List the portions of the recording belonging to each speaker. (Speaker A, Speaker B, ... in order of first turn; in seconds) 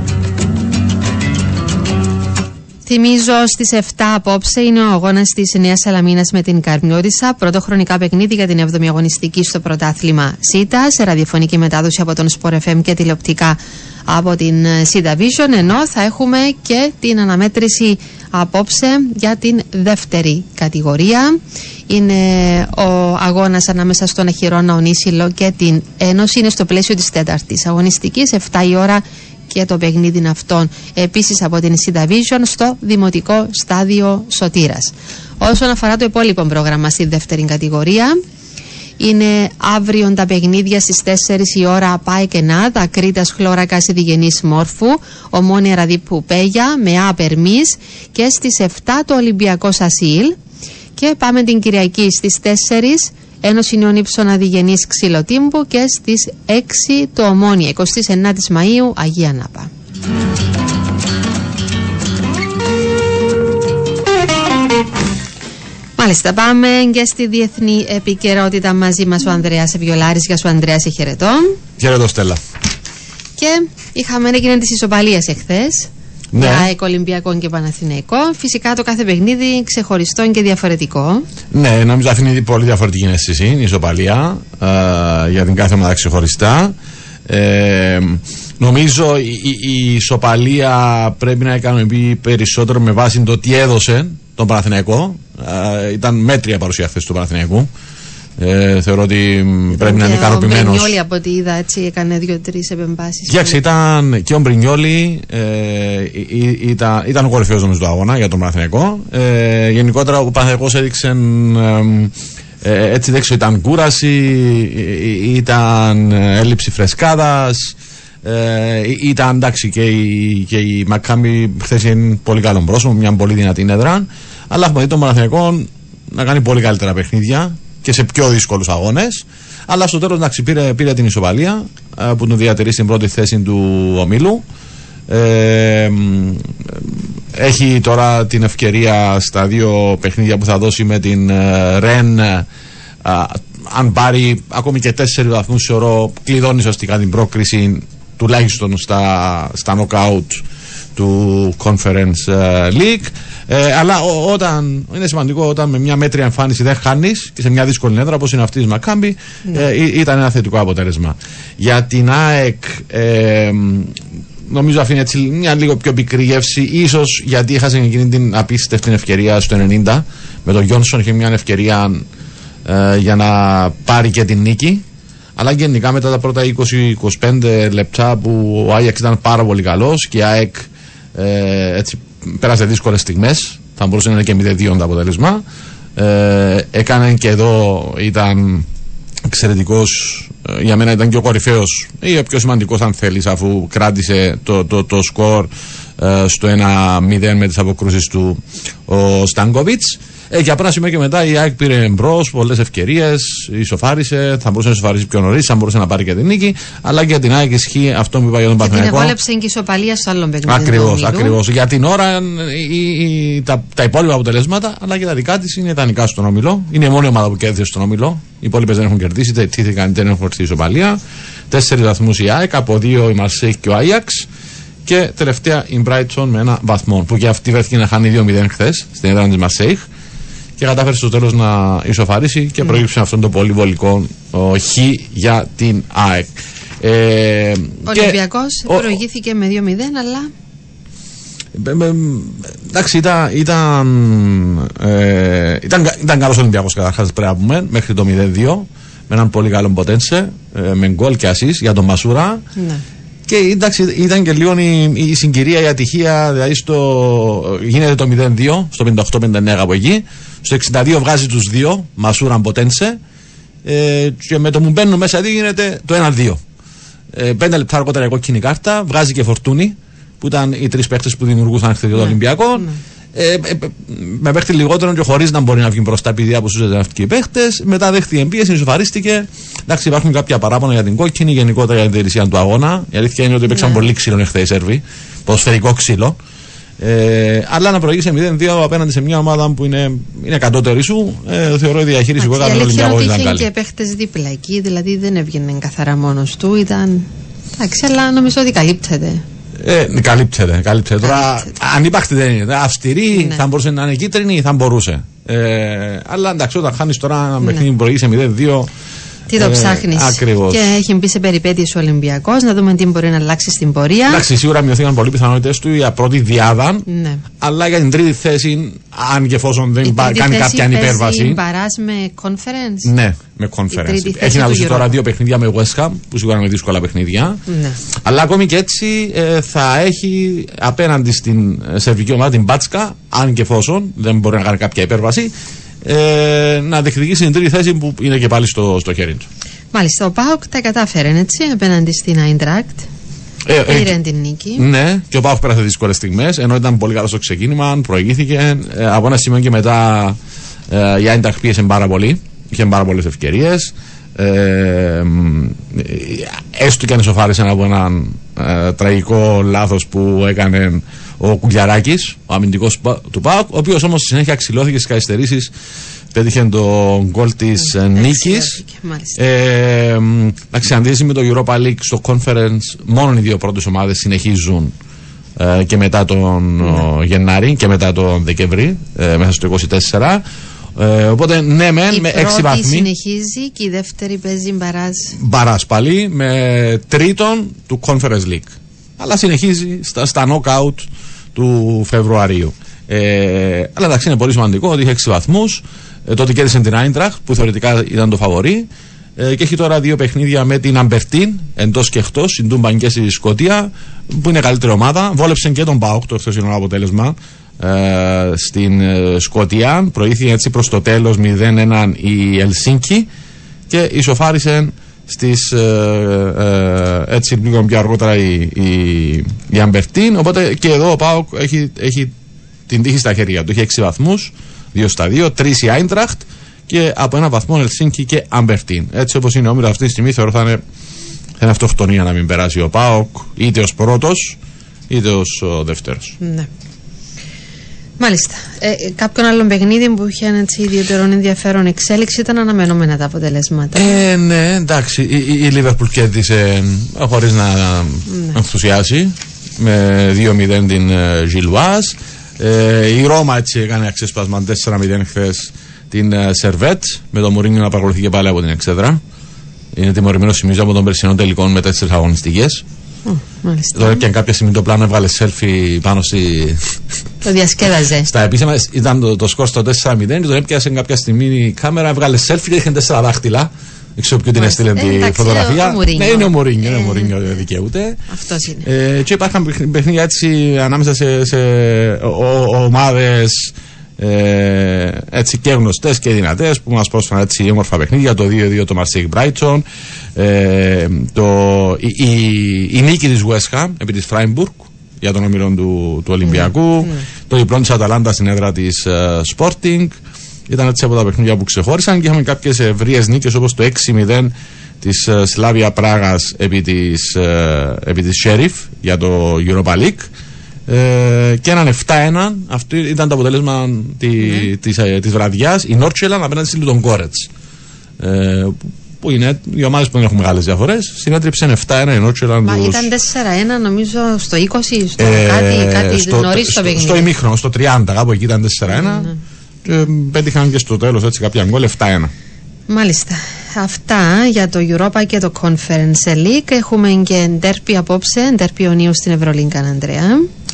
Speaker A: 2.9-38.2, 39.0-50.4, 51.0-59.7, 66.0-71.6, 73.4-81.3, 99.7-103.6, 208.6-211.4, 237.9-240.3, 252.6-252.8, 271.9-272.8, 283.5-283.8, 292.2-299.2, 301.0-301.5, 303.1-303.4, 309.3-314.2, 316.9-317.2, 319.8-322.9, 323.7-325.0, 327.5-327.8, 339.7-342.9, 343.7-344.6, 367.6-369.2, 381.9-385.1, 436.2-436.5, 438.0-444.0, 448.1-448.4, 463.1-464.0, 467.2-468.1, 474.4-477.2, 478.1-478.7, 496.2-497.1, 514.2-514.5, 522.5-527.1, 528.6-529.2, 532.7-540.3
Speaker B: 71.8-72.4, 76.3-76.7, 81.5-86.8, 87.3-97.7, 98.4-100.9, 103.3-134.4, 135.1-142.5, 143.0-150.4, 150.9-172.0, 172.7-174.8, 175.4-185.4, 186.0-188.7, 189.3-209.1, 210.5-221.0, 221.5-224.3, 224.8-229.9, 230.6-239.0, 241.6-252.4, 253.3-263.0, 263.6-266.4, 267.1-286.2, 286.8-293.5, 299.6-308.7, 309.4-310.7, 314.1-316.9, 317.4-321.4, 322.9-327.4, 328.0-335.3, 335.8-339.3, 343.5-343.9, 344.6-350.2, 350.7-365.5, 366.1-368.6, 369.2-374.7, 375.4-380.2, 380.8-382.9, 385.1-413.1, 413.7-422.1, 422.7-430.6, 431.4-434.4, 434.9-436.2, 443.8-459.0, 459.7-462.6, 463.8-466.7, 468.1-478.0, 478.6-510.1, 510.7-517.3, 518.0-522.9, 525.0-529.1, 529.6-532.1